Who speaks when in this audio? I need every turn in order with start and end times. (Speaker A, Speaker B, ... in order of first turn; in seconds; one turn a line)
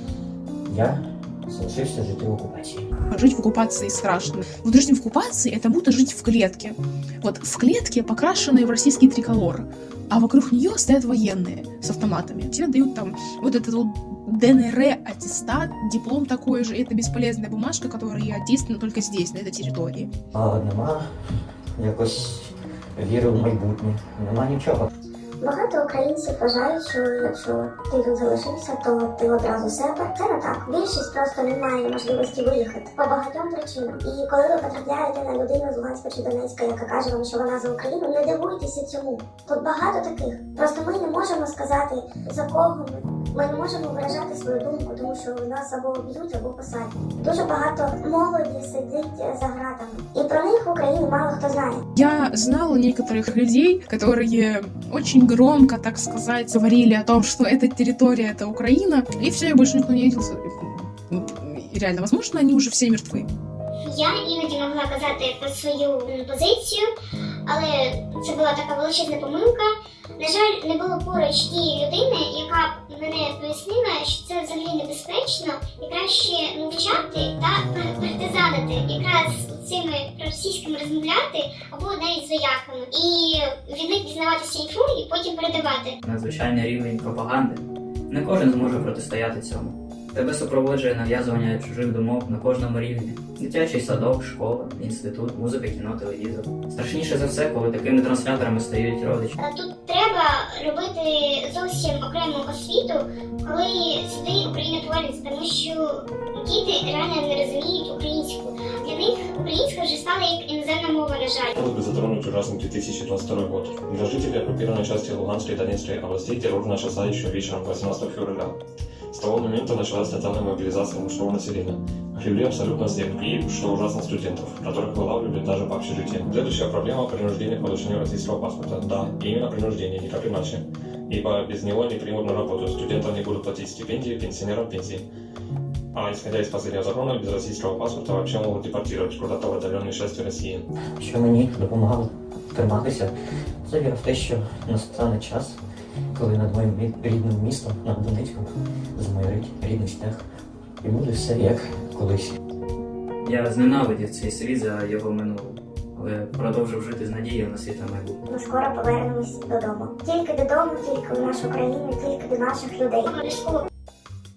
Speaker A: 0.7-2.8
Speaker B: 3.1-20.1
Speaker A: 20.4-21.1
Speaker A: 21.8-24.9
Speaker C: 25.4-51.8
Speaker B: 52.0-63.3
Speaker D: 63.9-66.9
Speaker D: 67.5-86.0
Speaker E: 86.0-99.3
Speaker D: 99.4-111.5
Speaker F: 111.6-118.6
Speaker F: 119.1-135.1
Speaker F: 135.9-140.7
Speaker A: 141.0-143.1
Speaker A: 143.7-145.6
Speaker A: 146.2-150.2
Speaker A: 150.8-152.3
Speaker E: 153.2-158.2
Speaker C: 158.3-163.1
Speaker D: 163.1-163.7